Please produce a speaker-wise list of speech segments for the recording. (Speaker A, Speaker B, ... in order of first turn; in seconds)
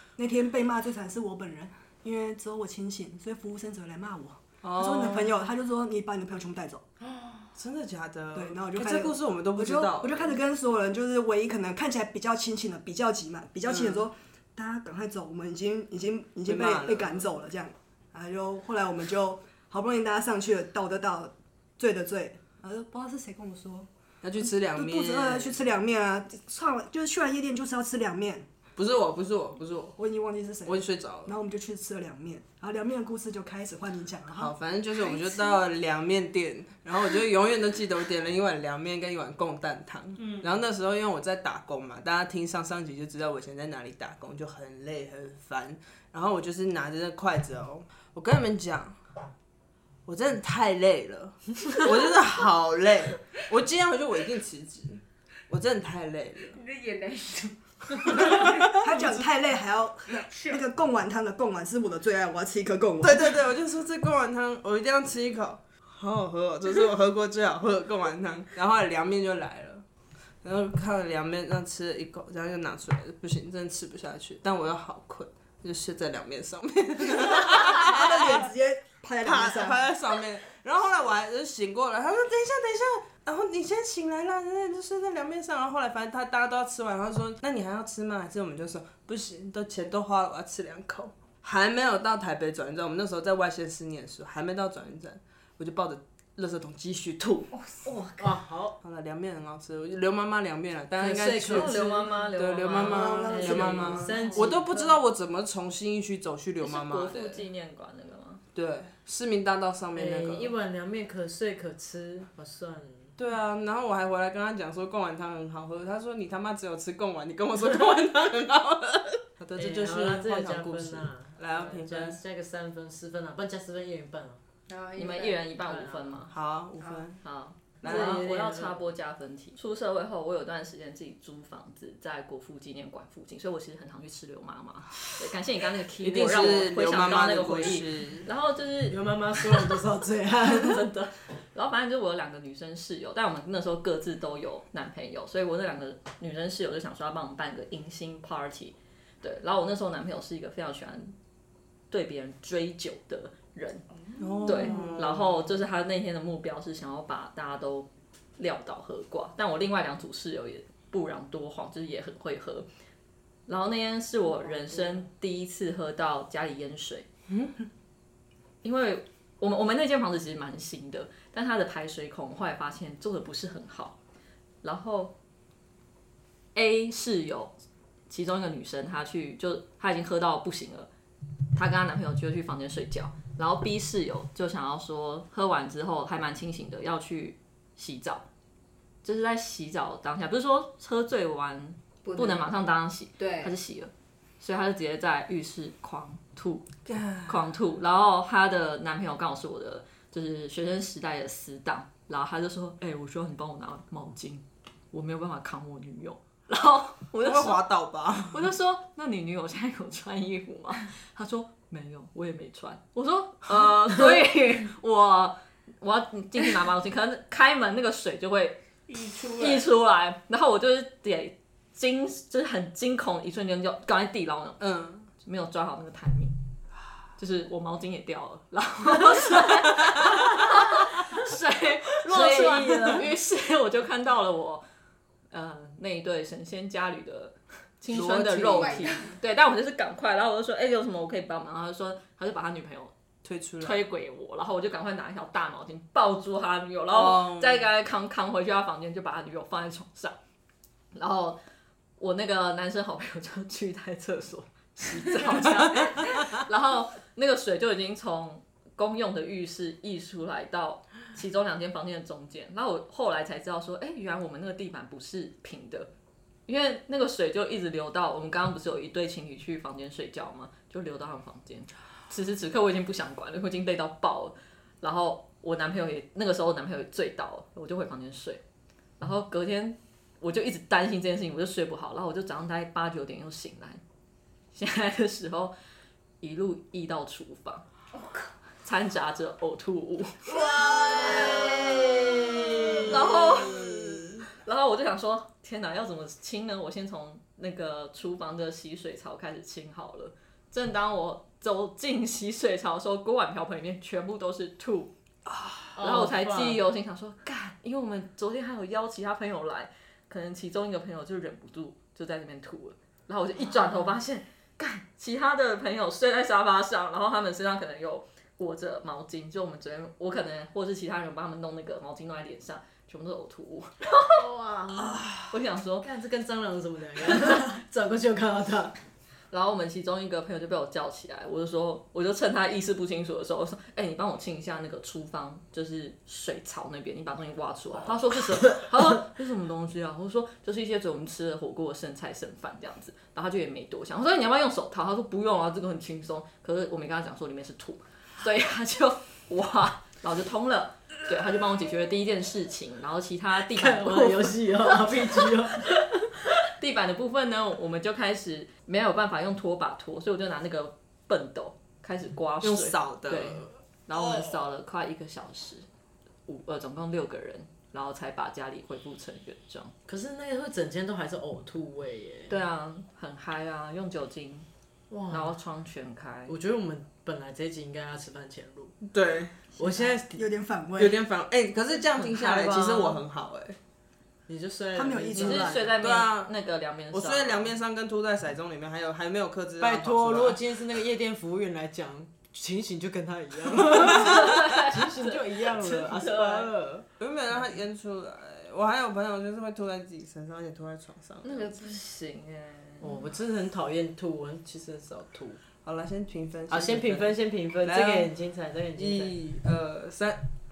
Speaker A: 0.2-6.8, 8.3-23.9, 24.7-28.5, 30.0-34.5, 58.1-63.4, 77.2-79.8, 102.9-103.6, 380.1-381.0, 384.8-385.8
Speaker B: 4.6-5.3, 7.5-10.3, 13.7-14.0, 16.5-17.3, 24.2-25.6, 28.8-30.0, 30.7-31.4, 34.4-49.0, 50.1-56.6, 58.0-59.1, 63.0-69.8, 70.4-78.5, 79.2-97.5, 98.8-107.5, 108.5-110.5, 113.2-122.2, 126.3-127.2, 127.8-128.2, 136.0-138.3, 154.2-155.5, 167.3-167.6, 196.9-197.5, 207.2-208.5, 224.6-225.1, 229.4-230.1, 237.9-238.9, 243.2-243.8, 246.9-247.7, 292.9-294.1, 362.4-363.5, 378.9-379.4, 380.8-383.6, 385.8-386.3, 386.9-390.4, 397.0-401.5, 405.6-408.1, 408.8-410.2
Speaker C: 7.0-7.5, 35.0-35.6, 56.5-58.8, 60.2-60.6, 97.5-98.3, 103.0-104.4, 124.7-125.4, 153.9-154.9, 192.1-192.5, 193.2-193.6, 238.6-239.2, 287.9-288.3, 401.3-401.8
Speaker D: 98.2-98.8, 101.0-102.2, 103.3-104.9, 110.0-113.2, 119.6-124.4, 125.6-126.1, 127.8-128.8, 138.9-140.8, 232.1-233.1, 290.3-292.9, 305.8-306.6, 324.1-328.7, 338.4-338.7, 353.4-356.1, 369.9-372.4, 374.9-375.3, 376.3-378.8, 379.6-380.2, 382.2-382.9, 384.3-385.7, 389.6-396.9, 402.8-405.4, 406.5-409.2
Speaker E: 101.4-104.5, 106.6-108.4, 125.0-126.3, 127.2-139.8, 140.4-151.2, 151.9-153.9, 154.4-162.7, 163.5-167.1, 168.6-174.0, 174.6-175.2, 176.6-177.5, 178.1-180.9, 181.6-188.2, 189.0-196.7, 197.3-207.6, 208.3-218.6, 219.2-224.6, 225.2-226.4, 227.2-234.6, 235.3-242.9, 243.6-250.2, 250.9-251.4, 252.0-265.9, 266.5-278.4, 279.0-283.8, 284.5-285.5, 286.2-287.6, 288.6-290.5, 292.9-304.9, 305.8-324.2, 325.3-325.9, 329.3-355.3, 356.4-365.7, 366.3-369.7, 372.3-374.5, 375.1-376.4, 379.6-379.9, 382.0-383.0, 385.1-387.6, 393.7-396.5, 401.2-403.0